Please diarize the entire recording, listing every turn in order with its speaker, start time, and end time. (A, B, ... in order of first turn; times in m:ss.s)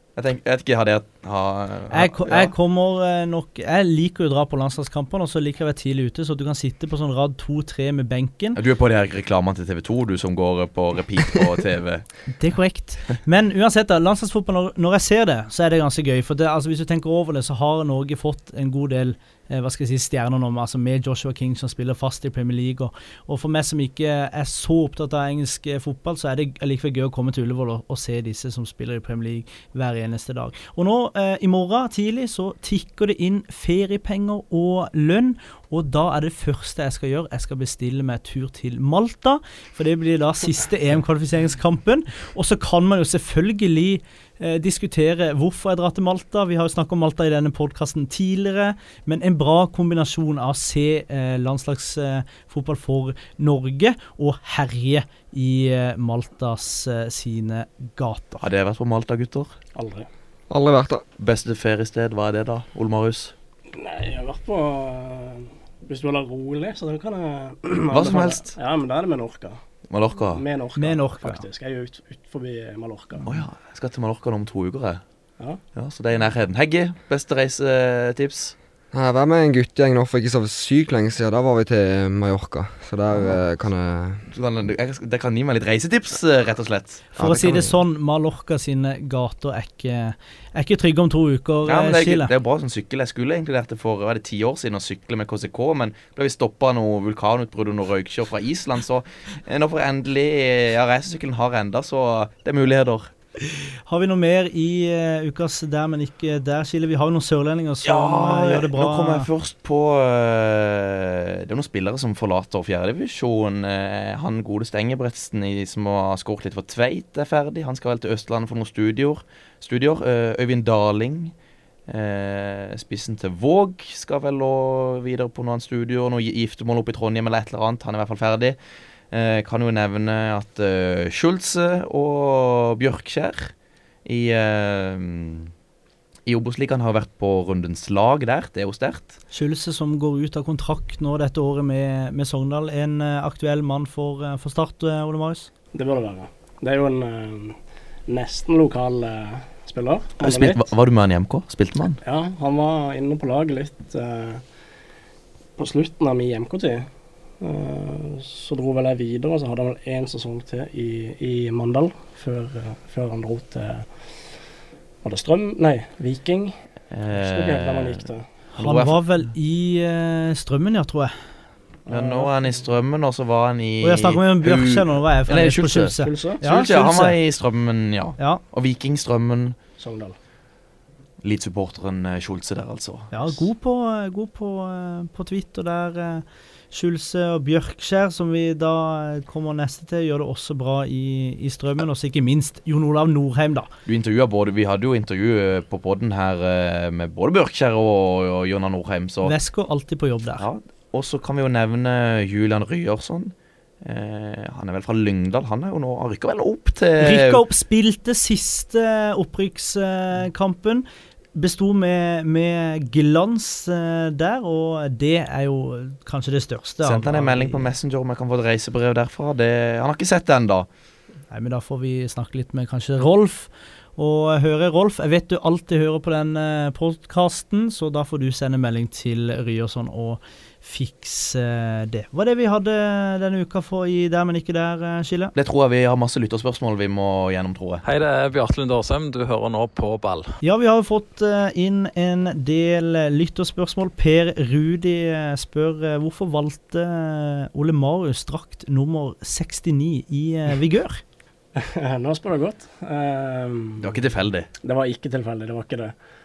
0:00.2-0:02.5 A
0:01.9-0:08.6 B
0:08.6-0:12.1 A
0:12.3-0:58.4 B
0:58.4-0:59.5 A
0:59.8-1:00.1 C
1:00.5-1:01.0 D
1:01.2-1:03.3 A
1:03.7-1:09.6 C
1:07.9-1:08.5 A
1:09.9-1:10.4 A
1:10.3-1:13.3 C
1:10.8-1:11.4 B
1:13.2-1:15.0 A
1:15.7-1:18.5 A
1:18.9-1:24.2 D
1:23.1-1:23.4 A
1:24.3-1:27.1 A
1:27.2-1:32.3 B
1:27.2-1:27.7 D
1:31.6-1:43.1 A
1:43.8-1:49.3 B
1:47.8-2:01.3 A
2:01.9-2:08.6 A
2:09.1-2:13.5 A
2:14.0-2:15.5 A
2:16.3-2:19.2 A
2:19.3-2:25.5 B
2:25.7-2:30.6 C
2:30.2-2:32.0 A
2:32.0-2:34.4 C
2:35.6-2:36.9 C
2:37.4-2:44.1 C
2:45.0-2:46.6 C
2:46.9-2:48.0 A
2:47.1-2:48.2 C
2:48.5-2:49.0 A
2:48.6-2:51.1 B
2:51.8-2:52.3 C
2:51.9-2:59.6 A
2:53.8-2:57.2 B
2:56.0-2:56.4 C
2:59.8-3:00.2 C
3:01.2-3:03.3 A
3:03.1-3:13.7 B
3:13.8-3:19.3 A
3:19.2-3:20.4 B
3:20.4-3:27.4 A
3:27.0-3:37.7 B
3:36.8-3:40.7 A
3:41.3-3:55.3 B
3:55.3-3:57.8 A
3:57.8-4:00.3 E
4:00.4-4:11.0 B
4:11.6-4:14.0 C
4:13.8-4:14.5 A
4:14.6-4:15.9 C